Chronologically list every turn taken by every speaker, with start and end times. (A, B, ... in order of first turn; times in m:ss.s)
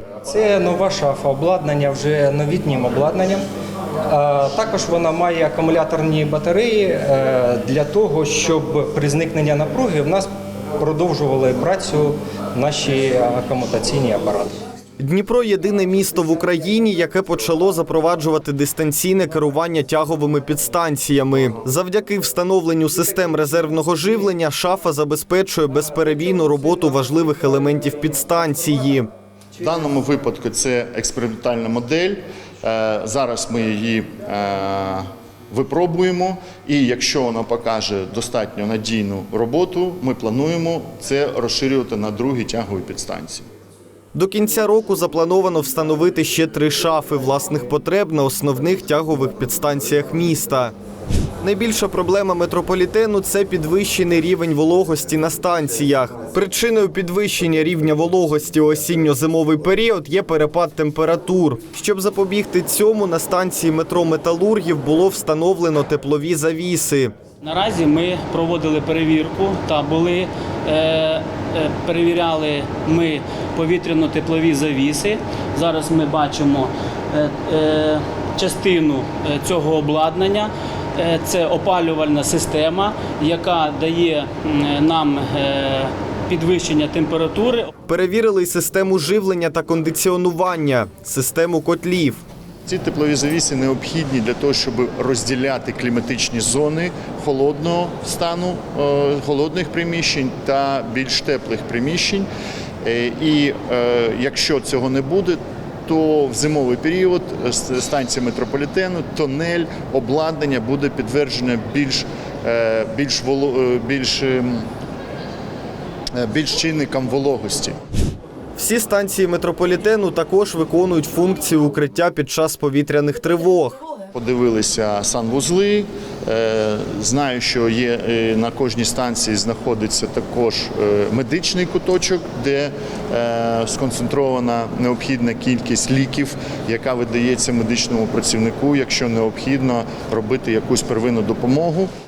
0:00.3-0:03.4 A
0:04.1-0:14.5 A
0:15.0-0:29.1 B
0:29.6-0:43.5 C
0:44.2-0:50.7 B
0:51.4-1:07.1 B
1:07.4-1:27.7 D
1:27.9-1:32.2 B
1:32.7-1:42.3 C
1:42.8-1:54.6 C
1:56.2-1:57.8 C
1:58.6-2:03.8 B
2:04.1-2:21.9 C